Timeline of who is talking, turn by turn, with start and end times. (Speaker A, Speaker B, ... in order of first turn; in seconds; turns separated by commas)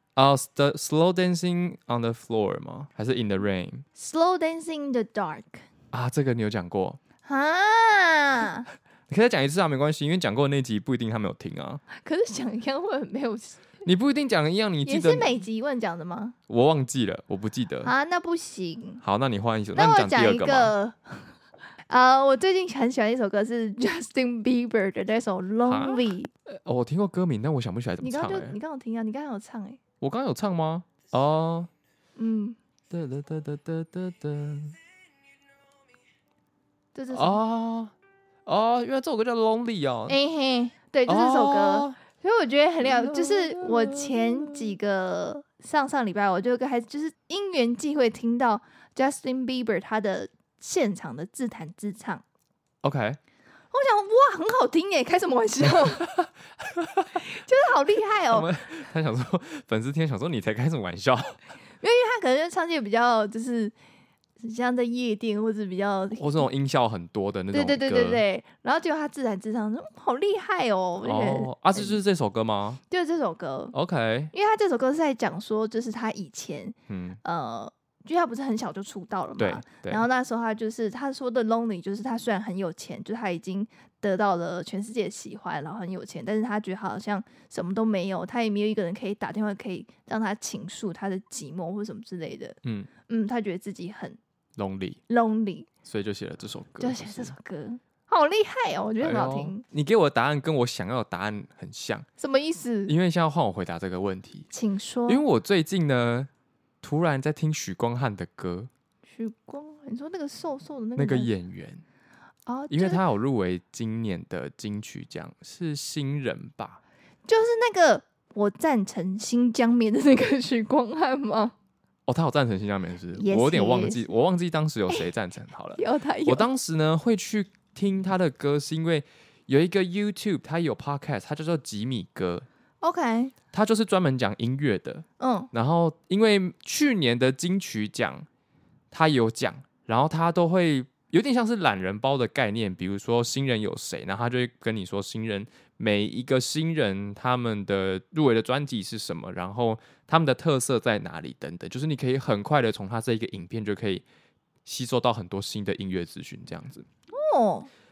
Speaker A: 0.1-3.8, Speaker B: 4.0-5.7, Speaker A: 5.9-7.0, Speaker B: 7.2-8.7, Speaker A: 9.1-11.8, Speaker B: 11.9-13.6, Speaker A: 13.8-15.3, Speaker B: 14.8-16.3, Speaker A: 16.5-17.9, Speaker B: 17.8-19.0, Speaker A: 19.0-20.7, Speaker B: 19.7-21.3, Speaker B: 21.9-26.3, Speaker A: 25.6-28.6, Speaker B: 28.0-29.8, Speaker A: 30.0-31.7, Speaker B: 32.2-32.6, Speaker A: 32.9-34.8, Speaker B: 36.9-37.4, Speaker A: 37.1-37.9, Speaker A: 38.5-40.1, Speaker B: 40.1-52.2, Speaker A: 41.0-42.0, Speaker A: 42.8-44.7, Speaker A: 52.8-53.2, Speaker B: 53.7-56.0, Speaker A: 55.9-57.3, Speaker B: 57.1-58.5, Speaker A: 58.3-61.4, Speaker B: 61.8-63.7, Speaker B: 64.4-66.5, Speaker A: 66.2-68.2, Speaker B: 67.5-72.0, Speaker A: 71.0-72.8, Speaker B: 72.9-73.7, Speaker A: 73.7-74.3, Speaker B: 74.3-94.2, Speaker A: 76.9-77.2, Speaker A: 79.4-80.1, Speaker A: 92.6-92.9, Speaker A: 94.6-95.0, Speaker B: 95.1-95.7, Speaker A: 95.8-97.3, Speaker B: 96.8-99.6, Speaker A: 99.0-102.0, Speaker B: 102.2-102.9, Speaker A: 102.9-104.5, Speaker B: 104.5-105.2, Speaker A: 105.1-106.3, Speaker A: 106.8-108.7, Speaker B: 109.0-111.3, Speaker A: 111.0-111.8, Speaker B: 112.5-113.0, Speaker A: 112.7-116.8, Speaker B: 117.2-121.5, Speaker A: 122.1-132.5, Speaker B: 123.2-124.1, Speaker B: 125.8-126.5, Speaker B: 132.8-133.3, Speaker A: 133.5-138.2, Speaker B: 135.2-135.5, Speaker A: 138.9-154.0, Speaker A: 154.6-156.8, Speaker B: 157.1-157.7